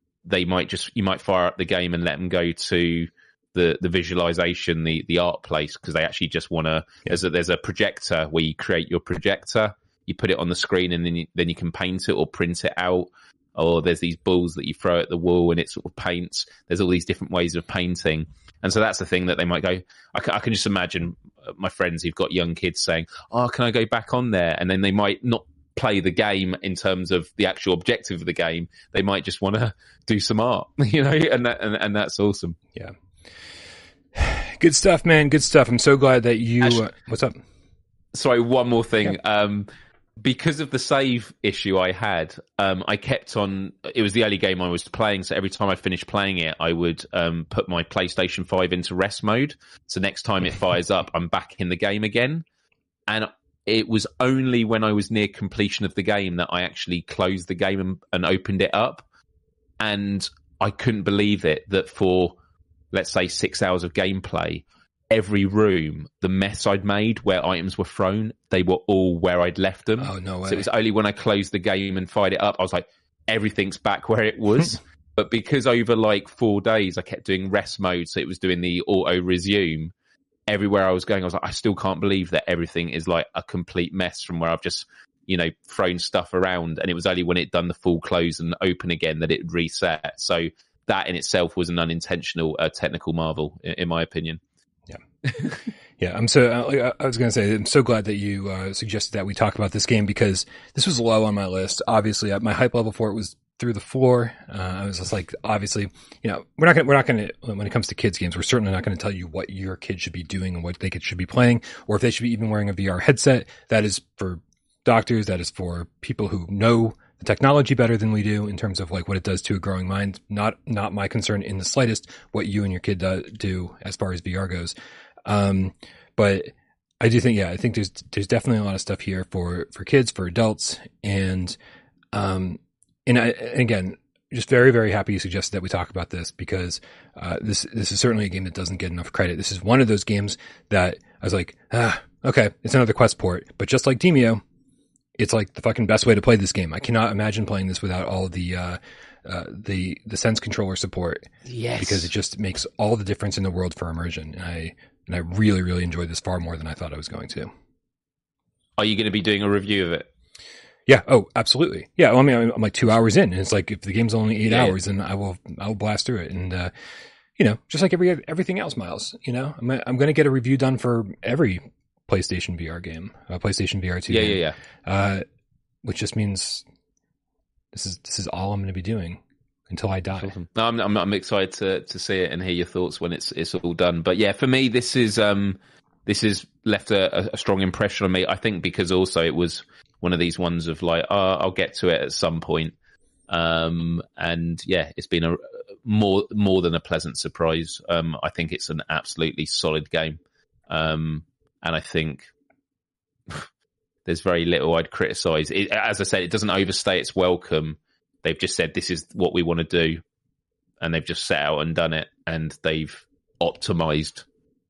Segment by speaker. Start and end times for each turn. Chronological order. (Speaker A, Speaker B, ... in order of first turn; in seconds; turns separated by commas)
Speaker A: 0.2-32.6, Speaker B: 34.1-37.4, Speaker A: 38.1-52.4, Speaker A: 53.1-59.0, Speaker A: 59.8-62.4, Speaker A: 62.9-79.9, Speaker B: 70.0-70.7, Speaker A: 80.5-94.4, Speaker A: 95.2-95.6, Speaker B: 96.0-124.7, Speaker B: 125.2-131.6, Speaker B: 132.1-144.4, Speaker B: 145.2-151.3, Speaker A: 151.4-152.1, Speaker B: 151.8-157.5, Speaker A: 158.8-160.1, Speaker B: 160.9-166.7, Speaker A: 164.4-164.7, Speaker B: 167.4-175.2, Speaker A: 174.1-174.6, Speaker B: 175.8-176.6, Speaker B: 177.7-180.3, Speaker A: 180.2-192.7, Speaker A: 193.3-202.3, Speaker A: 204.0-210.0, Speaker A: 210.8-214.2